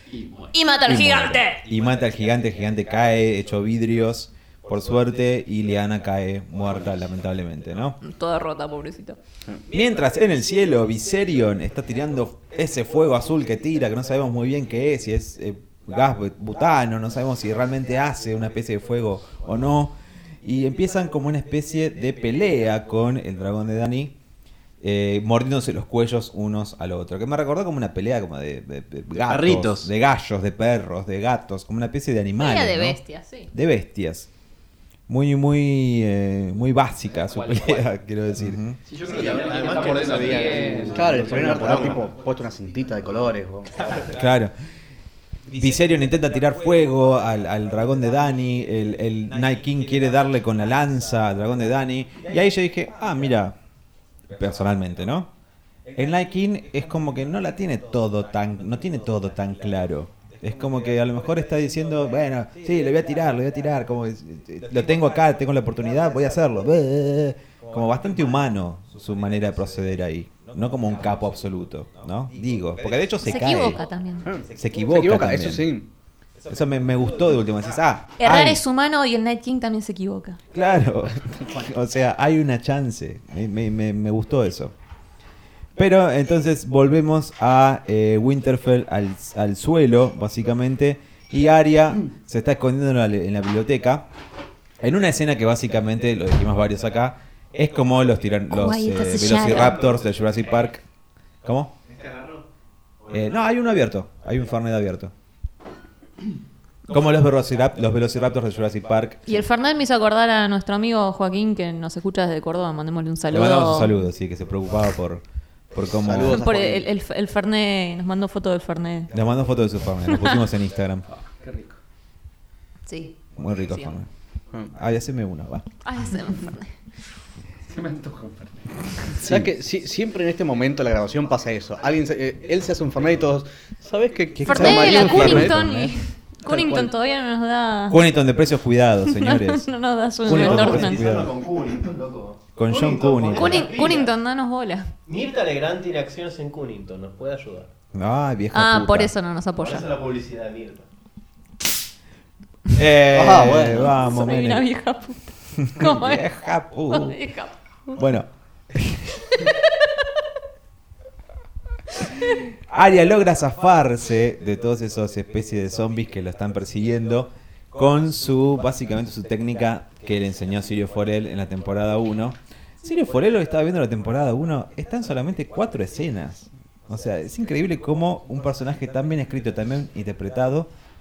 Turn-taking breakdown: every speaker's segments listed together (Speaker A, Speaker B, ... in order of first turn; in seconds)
Speaker A: 0.1-0.5, 37.2-37.9, 38.9-41.3, 121.2-121.8, 127.7-129.2
Speaker B: 0.5-1.6, 8.0-9.2, 32.4-33.5, 73.2-74.3, 78.2-80.4, 98.5-99.8, 109.3-114.0, 116.3-119.1, 122.9-123.2, 125.8-126.7, 134.5-138.0, 139.1-141.1, 143.3-144.9, 148.5-149.9, 153.8-156.3, 156.9-158.0
Speaker C: 0.8-8.0, 9.7-24.1, 24.8-33.0, 33.5-34.3, 35.1-38.8, 43.9-44.5, 45.5-53.6, 54.3-55.3, 55.9-73.8, 74.5-75.7, 76.5-78.6, 80.5-84.7, 85.8-94.1, 94.8-100.8, 101.4-101.7, 103.1-105.1, 106.9-109.5, 113.3-116.5, 119.1-121.0, 123.4-124.1, 124.7-125.7, 129.2-129.5, 134.3-135.9, 137.9-139.7, 140.2-141.3, 142.6-143.7, 147.9-149.1, 152.7-154.7, 155.6-157.2, 158.0-159.4, 162.6-180.7
Speaker D: 29.2-29.9, 39.0-42.0, 140.3-144.1, 145.1-147.7, 149.6-150.9
Speaker E: 41.0-44.0, 74.3-75.9, 115.9-116.9, 129.2-135.6, 136.5-136.9, 153.1-153.9